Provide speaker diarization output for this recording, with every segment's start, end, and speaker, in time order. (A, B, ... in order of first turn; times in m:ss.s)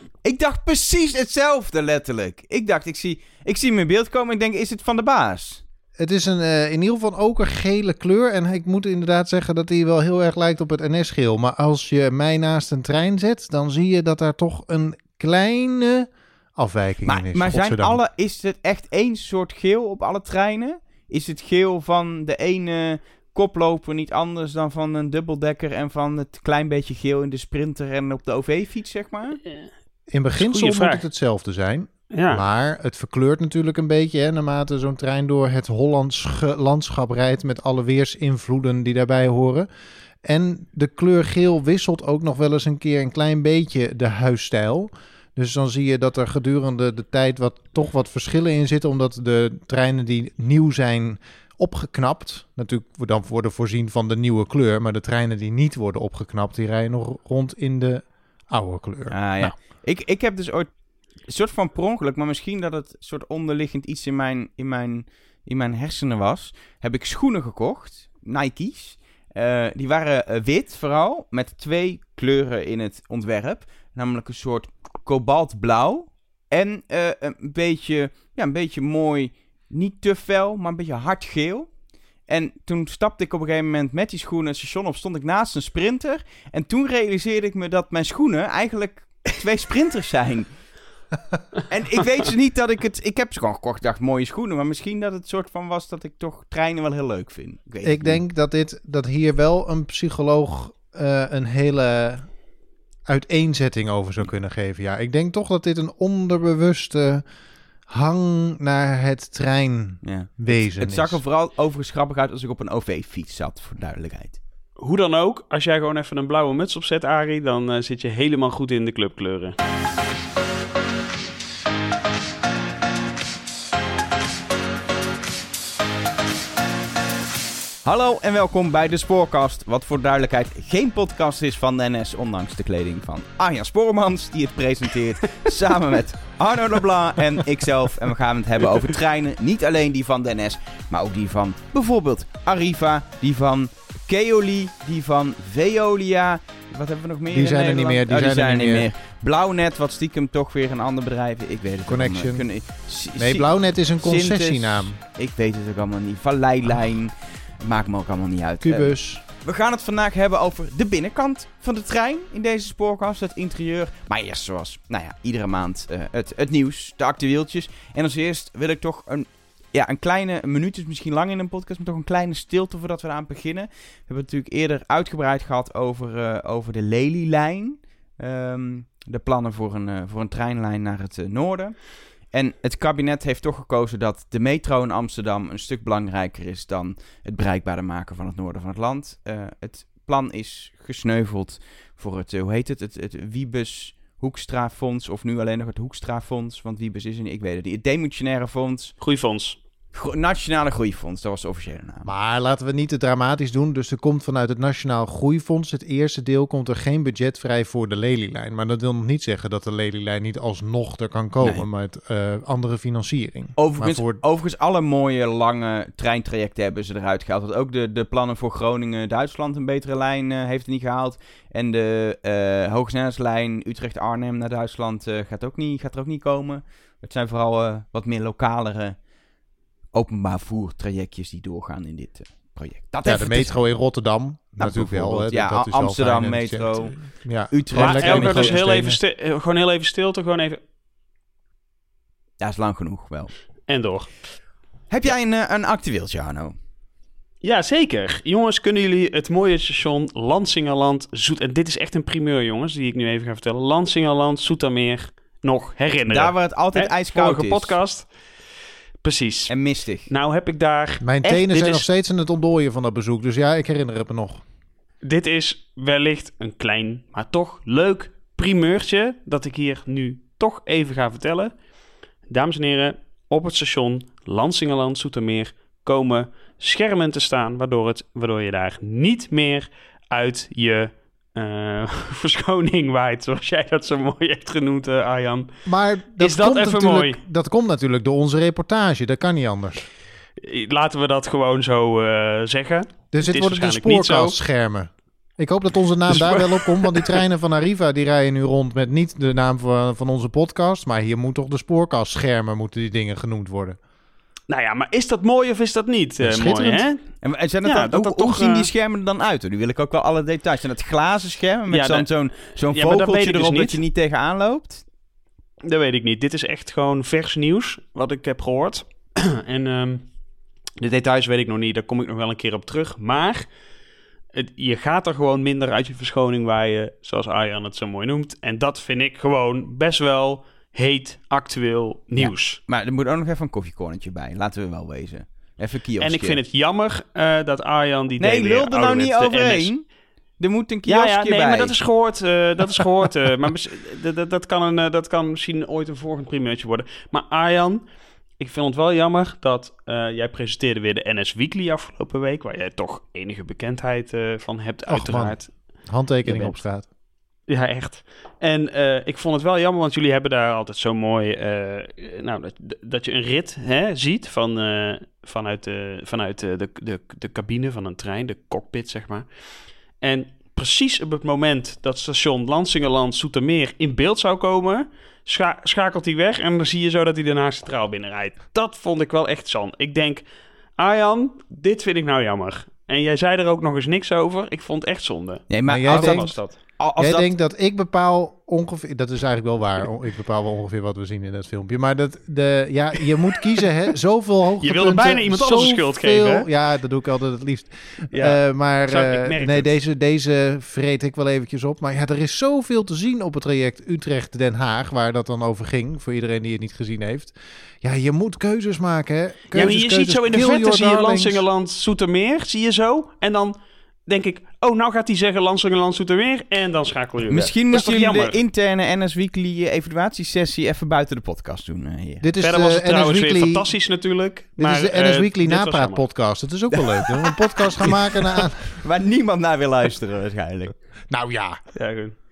0:00.2-0:05.6 A
0:06.0-0:18.0 B
0:17.0-0:29.4 A
0:30.1-0:39.7 B
0:30.4-0:31.1 C
0:32.1-0:32.4 C
0:40.2-0:59.5 B
0:59.1-1:00.7 A
1:01.3-1:21.7 A
1:22.3-1:30.5 A
1:31.7-1:38.2 A
1:37.8-1:42.3 B
1:43.1-1:47.2 B
1:47.9-1:51.2 B
1:50.0-1:54.4 A
1:54.8-1:59.6 C
2:07.8-3:19.0 A
2:27.3-2:28.9 B
2:31.9-2:32.5 B
2:33.2-2:35.0 B
2:38.6-2:39.2 B
3:19.0-3:19.6 C
3:19.9-3:22.1 A
3:22.0-3:34.2 B
3:33.6-3:49.0 A
3:49.9-3:53.6 A
3:53.0-3:59.0 B
3:54.6-3:58.6 A
3:57.8-4:00.6 C
4:02.4-4:03.3 A
4:03.7-4:04.2 C
4:04.9-4:06.5 A
4:07.4-4:18.1 C
4:16.1-4:17.8 A
4:19.0-4:19.5 C
4:19.5-4:20.1 A
4:20.1-4:21.8 C
4:21.0-4:24.4 B
4:25.0-4:31.5 C
4:32.3-4:45.5 C
4:45.7-4:49.8 B
4:46.2-4:47.2 C
4:50.4-4:54.4 C
4:53.1-5:03.8 B
4:56.1-4:57.2 C
5:04.5-5:07.0 C
5:06.2-5:06.9 B
5:07.2-5:14.8 A
5:07.6-5:08.7 C
5:11.7-5:12.1 C
5:12.7-5:13.8 C
5:15.6-5:20.1 C
5:20.8-5:23.5 C
5:24.3-5:32.6 C
5:32.2-5:36.4 A
5:36.0-5:39.7 C
5:38.2-5:39.9 A
5:40.4-5:41.8 A
5:40.9-5:47.8 C
5:48.4-5:55.6 C
5:54.9-5:56.9 B
5:56.2-5:56.6 C
5:57.5-6:09.3 C
6:10.0-6:20.2 C
6:20.8-6:26.6 C
6:25.5-6:27.3 A
6:25.7-6:26.3 B
6:27.0-6:51.4 B
6:34.6-6:36.5 C
6:38.1-6:39.7 C
6:49.5-6:58.4 C
6:57.3-7:02.3 A
7:02.2-7:03.7 B
7:02.4-7:06.1 C
7:04.6-7:08.7 B
7:06.7-7:08.0 A
7:08.7-7:10.8 A
7:11.1-7:11.6 B
7:11.8-7:12.2 C